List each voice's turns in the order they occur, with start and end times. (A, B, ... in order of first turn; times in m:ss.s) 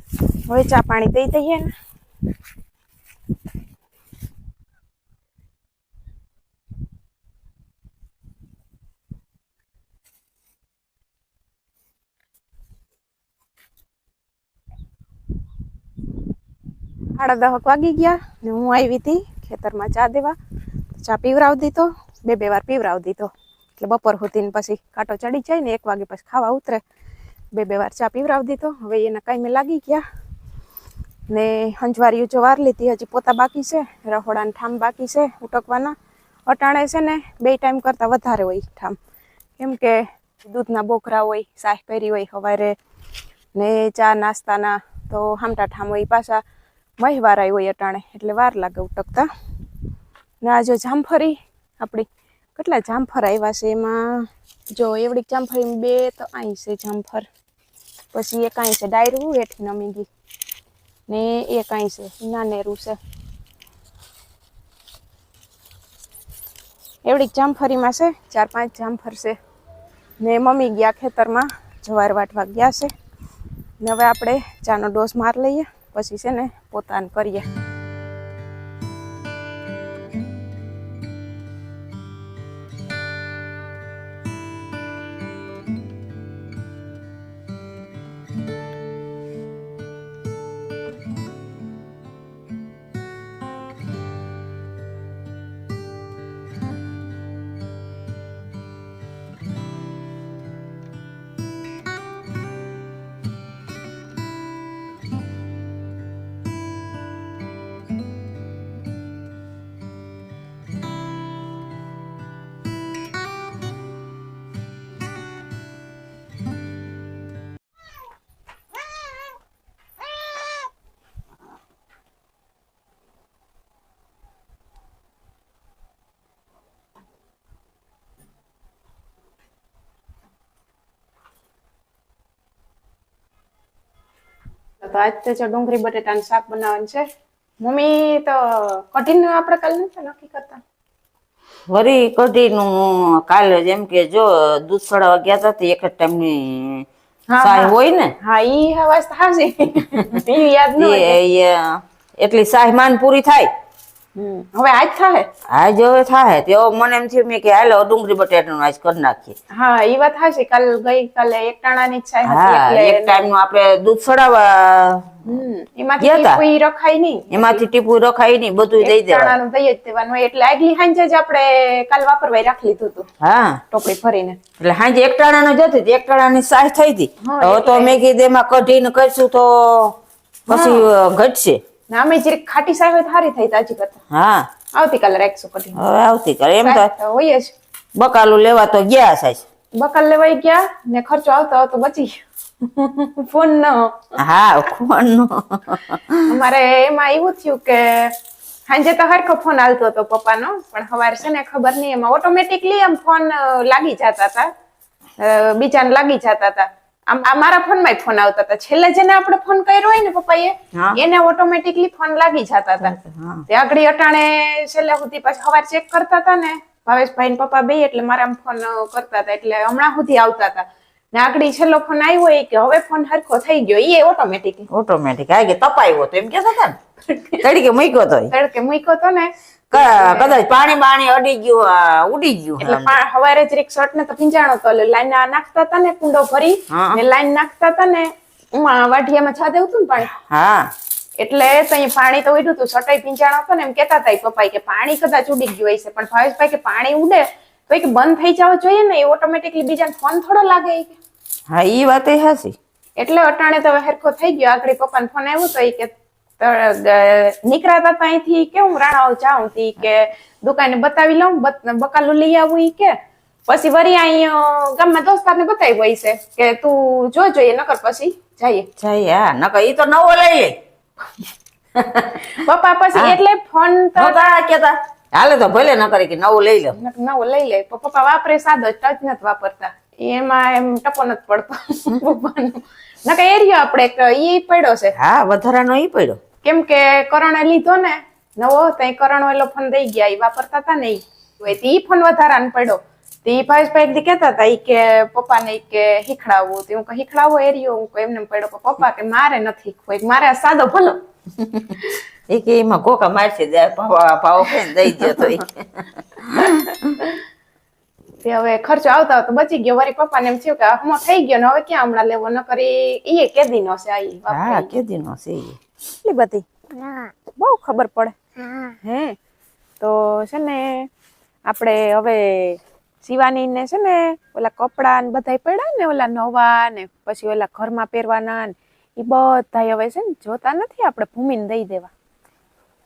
0:00.5-0:01.7 A
0:17.1-0:20.4 A
0:20.9-0:26.8 A
0:27.5-0:30.0 A
0:31.3-0:35.9 A
0:36.5-0:39.0 A
0:39.6-0:42.8 A
0:43.5-0:46.4 A
0:47.0-0:49.3 A
0:50.4-0:57.3 A
0:58.1-1:00.1 A
1:01.1-1:03.0 A
1:07.0-1:09.4 A
1:10.2-1:12.9 A
1:13.8-1:17.4 A
2:14.8-2:17.0 A
2:17.6-2:20.6 A
2:21.7-2:26.8 B
2:27.3-2:31.2 A
2:27.4-2:28.1 B
2:30.8-2:33.5 B
2:34.2-2:35.3 A
2:35.5-2:39.3 B
2:39.5-2:43.2 A
2:42.2-2:45.1 B
2:45.2-2:47.6 A
2:46.0-2:46.4 B
2:47.3-2:49.3 B
2:48.8-2:53.1 A
2:53.2-2:53.6 B
2:53.7-2:54.4 A
2:54.6-2:59.9 B
2:57.2-2:58.0 A
3:00.5-3:01.6 B
3:00.5-3:00.8 A
3:01.9-3:04.0 A
3:04.1-3:04.5 B
3:04.7-3:05.8 A
3:05.8-3:06.9 B
3:06.6-3:07.5 A
3:08.0-3:09.4 B
3:09.7-3:14.1 A
3:14.2-3:16.2 B
3:16.3-3:18.1 A
3:18.7-3:24.5 A
3:25.2-3:32.9 A
3:32.8-3:33.4 B
3:33.5-3:44.6 A
3:44.7-3:46.8 B
3:47.1-3:47.4 A
3:47.4-3:48.3 B
3:48.3-3:50.4 A
3:49.7-3:53.0 B
3:52.6-4:00.1 A
3:56.7-3:57.0 B
4:00.1-4:00.7 B
4:01.2-4:11.0 A
4:11.5-4:12.5 B
4:13.0-4:22.9 A
4:23.5-4:28.7 A
4:28.8-4:30.6 B
4:31.7-4:32.4 B
4:32.3-4:34.3 A
4:34.0-4:36.7 B
4:36.7-4:44.9 A
4:45.0-4:46.2 B
4:46.4-5:01.0 A
5:02.3-5:07.0 B
5:06.4-5:07.2 A
5:08.2-5:14.7 A
5:14.3-5:15.6 B
5:16.0-5:16.4 A
5:17.4-5:18.2 A
5:18.8-5:19.2 A
5:19.8-5:20.9 A
5:21.5-5:31.9 A